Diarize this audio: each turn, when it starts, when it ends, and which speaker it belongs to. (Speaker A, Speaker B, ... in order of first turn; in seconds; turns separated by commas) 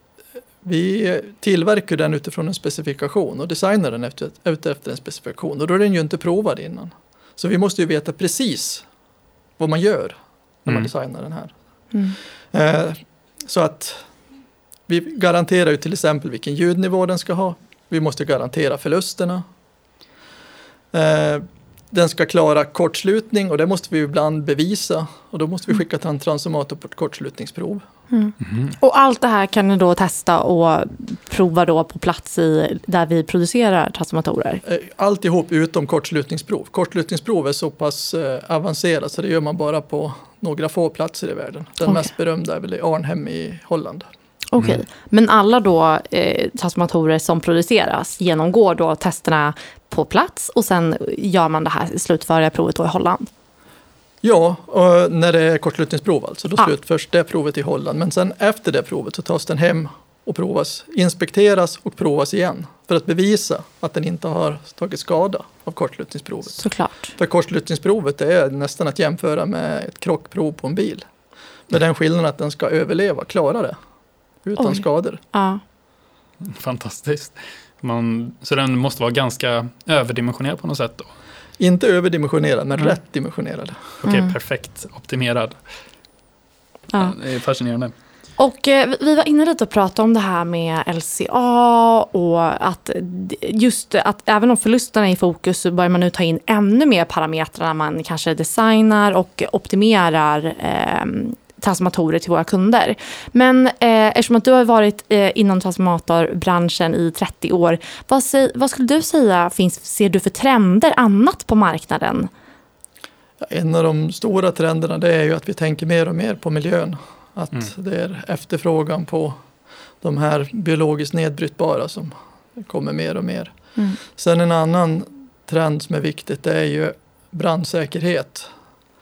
Speaker A: 0.6-8.9, Speaker A: 9.6-11.5, Speaker B: 11.9-12.2, Speaker A: 12.5-14.1, Speaker A: 14.9-19.4, Speaker A: 20.9-27.8, Speaker B: 28.1-34.6, Speaker C: 28.4-28.7, Speaker A: 34.6-44.1, Speaker B: 41.8-42.1, Speaker B: 44.5-53.3, Speaker A: 54.2-71.1, Speaker B: 66.6-67.2, Speaker A: 71.7-73.8, Speaker A: 74.4-75.2, Speaker B: 74.6-75.6, Speaker C: 76.4-81.1, Speaker A: 81.6-84.0, Speaker C: 84.0-85.6, Speaker B: 84.0-84.3, Speaker C: 87.0-87.9, Speaker B: 88.4-112.3, Speaker A: 113.4-119.4, Speaker A: 120.0-128.5